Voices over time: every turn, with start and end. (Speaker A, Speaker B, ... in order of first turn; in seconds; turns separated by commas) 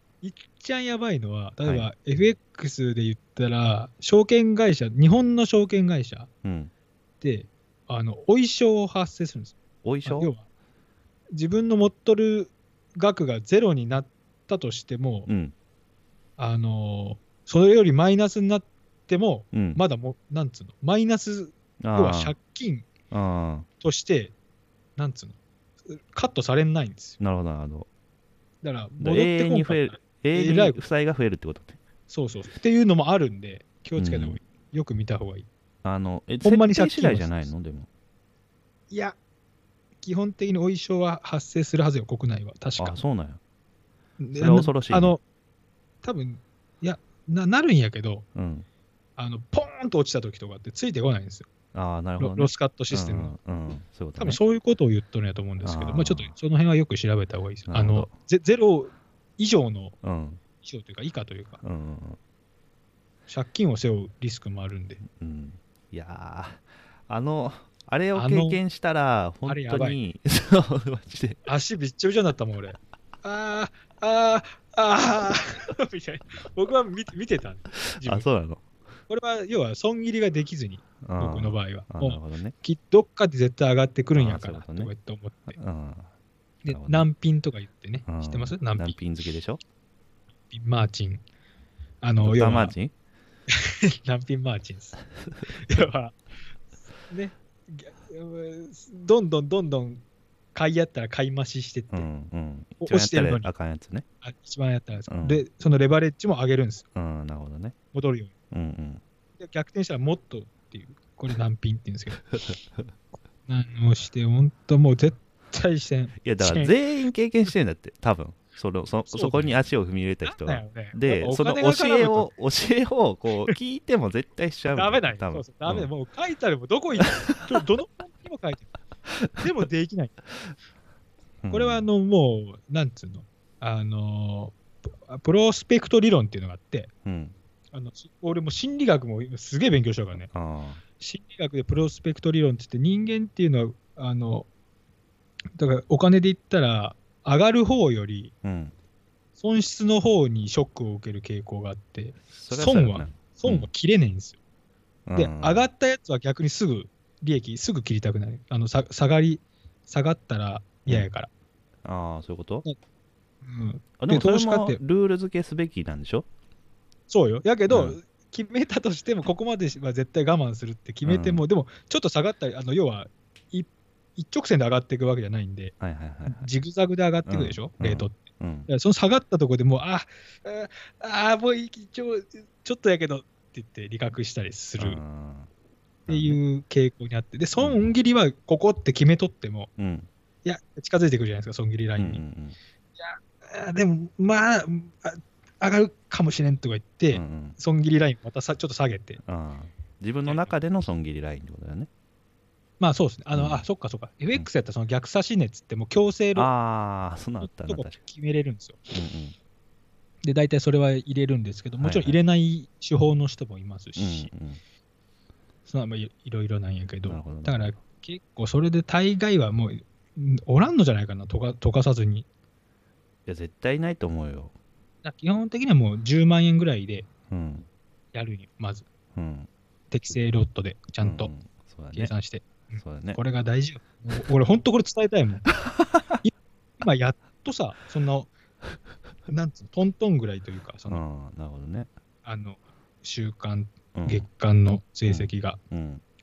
Speaker A: 0.2-6.3, Speaker B: 1.6-1.9, Speaker B: 6.4-6.7, Speaker A: 7.2-10.4, Speaker B: 9.8-10.3, Speaker A: 11.3-15.3, Speaker B: 15.3-15.5, Speaker A: 16.4-22.9, Speaker B: 19.5-19.8, Speaker B: 21.8-22.4, Speaker B: 23.1-23.7, Speaker A: 23.8-24.3, Speaker A: 25.0-25.4, Speaker A: 25.9-27.2, Speaker B: 27.2-27.9, Speaker A: 28.6-30.8, Speaker B: 29.0-31.8, Speaker A: 32.1-35.5, Speaker B: 34.0-34.4, Speaker B: 35.8-37.9, Speaker A: 36.4-37.5, Speaker A: 38.9-39.2, Speaker A: 40.0-43.0, Speaker B: 42.8-43.4, Speaker A: 44.2-45.2, Speaker B: 44.4-45.2, Speaker A: 46.0-48.3, Speaker B: 48.4-48.7, Speaker A: 49.2-51.5, Speaker B: 51.7-54.4, Speaker A: 52.2-53.3, Speaker A: 54.2-60.0, Speaker B: 55.6-56.3, Speaker B: 57.7-58.1, Speaker B: 60.0-60.4, Speaker A: 60.6-61.6, Speaker B: 61.6-62.2, Speaker A: 63.3-65.0, Speaker B: 65.1-71.4, Speaker A: 68.1-68.6, Speaker A: 69.5-70.0, Speaker A: 71.5-78.3, Speaker B: 78.0-78.7, Speaker A: 79.1-85.6, Speaker B: 81.0-82.5, Speaker B: 84.2-84.9, Speaker B: 85.5-86.1, Speaker A: 86.6-89.0, Speaker B: 86.7-87.1, Speaker B: 88.1-89.6, Speaker A: 90.5-91.2, Speaker A: 92.0-92.8, Speaker B: 92.2-92.9, Speaker A: 93.5-96.2, Speaker A: 97.1-100.0, Speaker A: 100.5-102.1, Speaker B: 101.9-104.0, Speaker A: 102.8-103.5, Speaker A: 104.2-106.8, Speaker B: 105.1-105.4, Speaker B: 107.0-107.8, Speaker A: 107.9-108.3, Speaker B: 108.5-109.0, Speaker A: 109.4-112.3, Speaker B: 112.3-112.9, Speaker A: 113.5-116.7, Speaker B: 116.2-125.9, Speaker A: 119.1-119.6, Speaker A: 120.2-122.3, Speaker A: 124.7-128.7, Speaker B: 127.0-127.5, Speaker A: 129.4-130.2, Speaker B: 131.4-131.9, Speaker A: 131.5-136.9, Speaker B: 137.1-137.3, Speaker A: 137.7-140.3, Speaker B: 140.3-140.8, Speaker A: 141.0-144.5, Speaker A: 145.6-148.3, Speaker B: 148.4-148.7, Speaker A: 149.4-154.4, Speaker B: 152.3-153.7, Speaker B: 155.1-155.7, Speaker A: 155.2-161.3, Speaker B: 161.8-162.7, Speaker A: 163.4-164.8, Speaker B: 164.0-166.3, Speaker A: 167.1-175.8, Speaker B: 167.7-168.0, Speaker B: 171.0-171.4, Speaker B: 175.8-176.5, Speaker A: 176.3-185.0, Speaker B: 177.3-178.7, Speaker B: 184.8-185.5, Speaker A: 186.1-189.7, Speaker B: 186.1-186.4, Speaker B: 187.6-187.9, Speaker B: 189.8-190.1, Speaker A: 190.4-192.2, Speaker B: 192.0-192.6, Speaker A: 193.0-199.2, Speaker B: 197.1-197.6, Speaker B: 199.2-201.9, Speaker A: 200.3-200.5, Speaker A: 202.8-206.5, Speaker B: 203.3-203.6, Speaker B: 206.3-208.0, Speaker A: 207.4-208.9, Speaker B: 208.9-209.4, Speaker A: 210.2-214.3, Speaker B: 211.8-212.2, Speaker B: 214.0-214.6, Speaker A: 215.7-222.3, Speaker B: 217.1-217.7, Speaker B: 223.3-224.5, Speaker A: 225.0-227.1, Speaker B: 227.3-227.7, Speaker A: 228.1-228.9, Speaker B: 229.2-229.5, Speaker A: 229.9-231.3, Speaker B: 231.0-232.1, Speaker A: 231.9-235.5, Speaker B: 232.8-233.2, Speaker B: 235.7-236.0, Speaker A: 236.2-238.3, Speaker A: 239.3-241.0, Speaker B: 240.9-241.9, Speaker A: 242.2-245.6, Speaker B: 243.9-244.3, Speaker B: 245.1-246.0